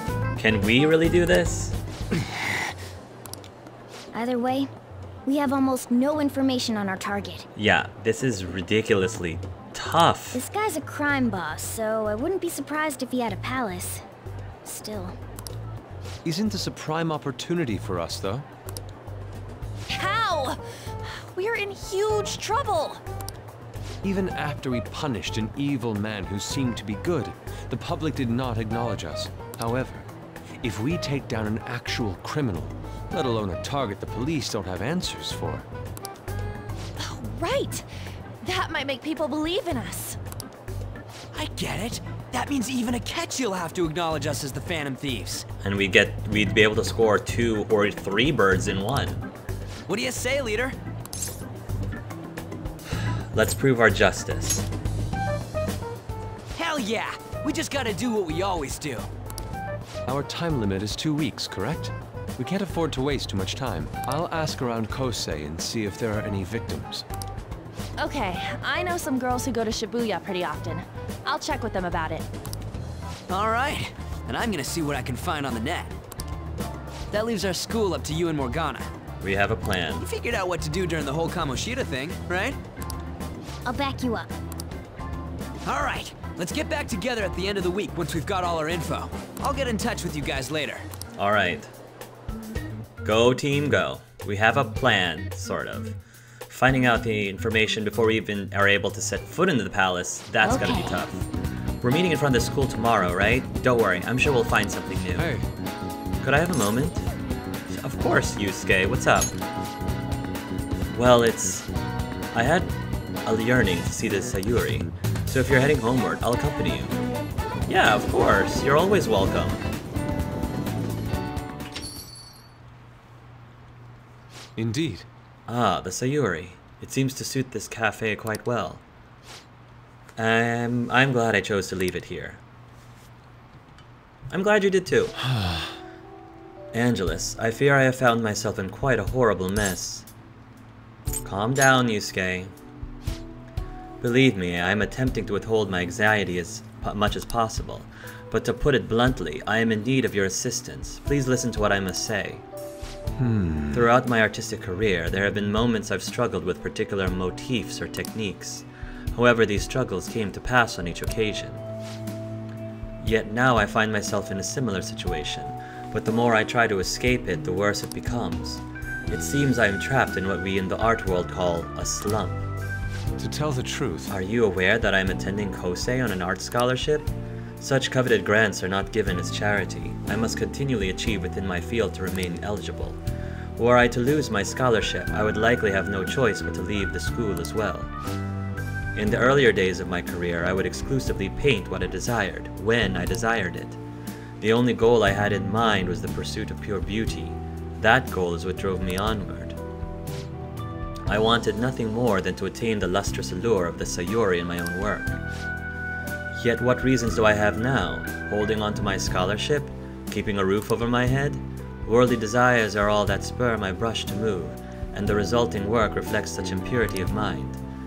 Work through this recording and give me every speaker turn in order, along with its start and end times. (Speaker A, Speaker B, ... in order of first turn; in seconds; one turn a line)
Speaker A: 0.4-1.8
Speaker B: 4.1-4.7
Speaker B: 5.3-7.5
Speaker A: 7.5-10.4
Speaker B: 10.3-14.0
Speaker B: 14.6-15.2
Speaker C: 16.2-18.4
Speaker D: 19.9-23.0
Speaker C: 24.0-30.1
Speaker C: 30.6-35.7
Speaker D: 37.0-37.9
Speaker D: 38.4-40.2
Speaker E: 41.3-45.5
Speaker A: 45.6-49.2
Speaker E: 49.9-50.8
Speaker A: 53.3-54.7
Speaker E: 56.5-59.1
Speaker C: 60.1-67.0
Speaker D: 68.0-72.2
Speaker E: 73.3-75.9
Speaker E: 77.1-78.9
Speaker A: 79.2-80.1
Speaker E: 80.0-82.6
Speaker B: 83.6-84.3
Speaker E: 85.6-90.8
Speaker A: 91.2-91.7
Speaker A: 93.0-96.0
Speaker A: 96.5-101.2
Speaker B: 100.5-101.0
Speaker A: 101.8-105.3
Speaker C: 105.2-105.5
Speaker A: 106.2-107.1
Speaker A: 107.7-109.4
Speaker A: 110.9-111.7
Speaker A: 112.3-112.7
Speaker A: 113.2-116.9
Speaker A: 117.7-119.6
Speaker C: 124.6-125.1
Speaker A: 125.5-128.8
Speaker A: 130.2-132.4
Speaker A: 134.3-135.2
Speaker A: 136.7-140.1
Speaker A: 141.2-142.5
Speaker A: 144.0-152.4
Speaker C: 153.2-153.8
Speaker A: 153.7-161.6
Speaker A: 163.0-172.4
Speaker C: 173.2-174.1
Speaker A: 174.1-183.0
Speaker A: 183.6-187.9
Speaker A: 188.9-193.8
Speaker A: 194.4-199.6
Speaker A: 201.1-205.2
Speaker A: 206.4-217.6